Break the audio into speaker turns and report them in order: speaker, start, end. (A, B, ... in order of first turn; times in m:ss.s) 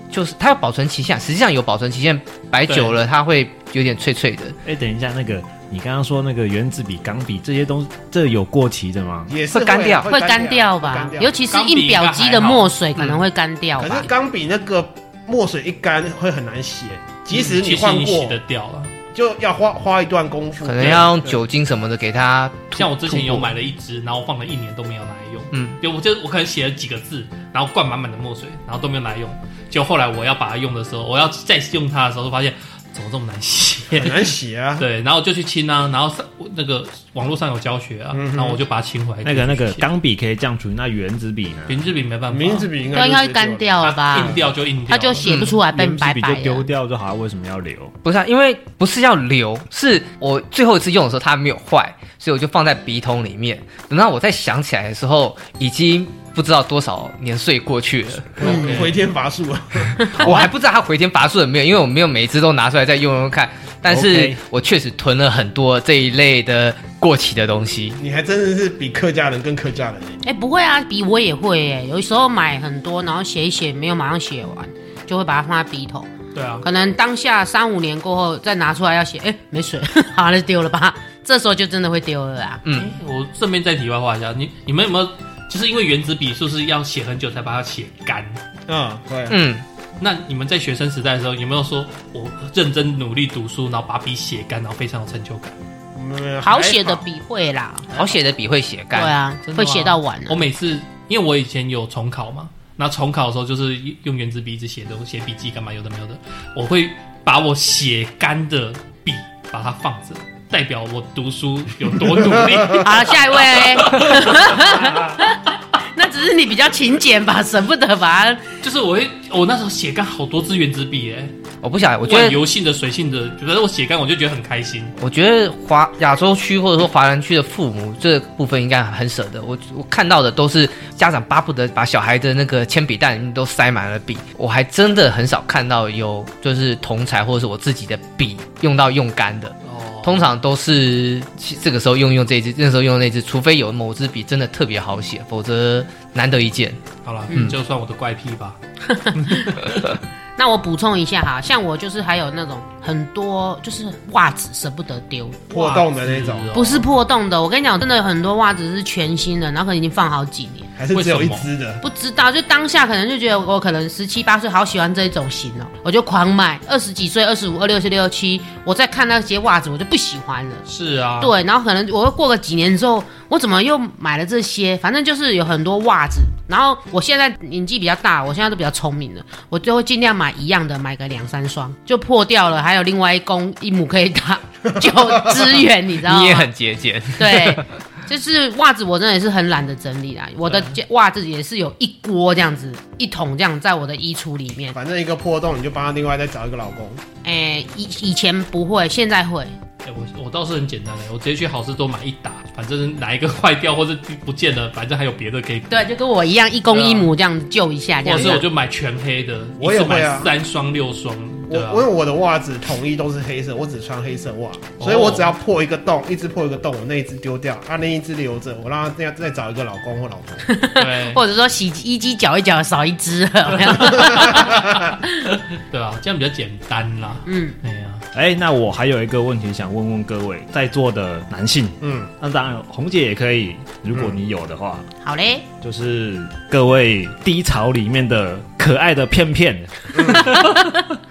0:00.1-0:04.6 A
0:02.7-0:03.0 B
0:04.6-0:09.3 C
0:09.3-0:11.3 D
0:09.5-0:10.1 A
0:10.1-0:14.1 E
0:11.5-0:12.7 B
0:13.8-0:18.4 D
0:17.3-0:18.9 B
0:19.1-0:21.4 D
0:20.6-0:23.5 A
0:22.7-0:39.9 B
0:25.5-0:25.8 A
0:33.9-0:34.8 D
0:38.1-0:38.6 D
0:39.2-0:41.8 C
0:41.7-0:42.7 B
0:42.3-0:44.5 D
0:42.9-0:46.7 E
0:43.8-0:45.3 B
0:45.2-0:45.6 A
0:45.6-0:47.9 C
0:48.0-0:58.9 A
0:58.4-1:00.5 D
0:58.4-0:59.0 B
1:00.1-1:08.0 A
1:03.9-1:04.4 C
1:08.0-1:10.2 D
1:10.2-1:16.1 E
1:16.3-1:16.6 B
1:16.6-1:22.6 E
1:22.6-1:22.9 A
1:22.7-1:28.4 B
1:28.7-1:29.4 D
1:29.3-1:29.6 A
1:30.0-1:35.6 B
1:36.0-1:37.0 D
1:36.4-1:37.9 E
1:37.9-1:39.2 A
1:38.9-1:40.4 E
1:39.5-1:55.2 B
1:52.7-1:58.4 E
1:58.6-2:01.3 B
2:01.6-2:02.4 A
2:02.0-2:04.9 B
2:05.0-2:27.5 A
2:19.6-2:20.3 B
2:27.0-2:28.6 B
2:28.9-2:29.6 E
2:29.1-2:30.0 B
2:30.4-2:35.4 E
2:35.5-2:36.5 D
2:35.5-2:36.9 B
2:36.5-2:40.7 E
2:40.8-2:41.8 D
2:40.9-2:41.5 B
2:41.8-2:50.6 E
2:50.7-2:51.3 B
2:51.2-3:06.5 E
3:06.0-3:07.6 A
3:07.2-3:14.8 E
3:10.4-3:10.7 B
3:14.7-3:17.0 D
3:17.2-3:19.6 E
3:19.8-3:25.9 B
3:25.7-3:28.4 E
3:26.7-3:27.1 B
3:28.0-3:31.9 B
3:29.6-3:30.3 D
3:31.5-3:40.5 D
3:34.8-3:35.3 B
3:40.4-3:44.6 E
3:40.8-3:41.2 B
3:44.0-3:44.6 B
3:44.0-3:44.8 D
3:45.3-3:48.0 B
3:47.3-3:47.6 E
3:48.1-3:54.9 C
3:51.8-3:52.1 D
3:55.0-3:55.4 E
3:55.6-4:00.5 C
4:00.0-4:00.4 D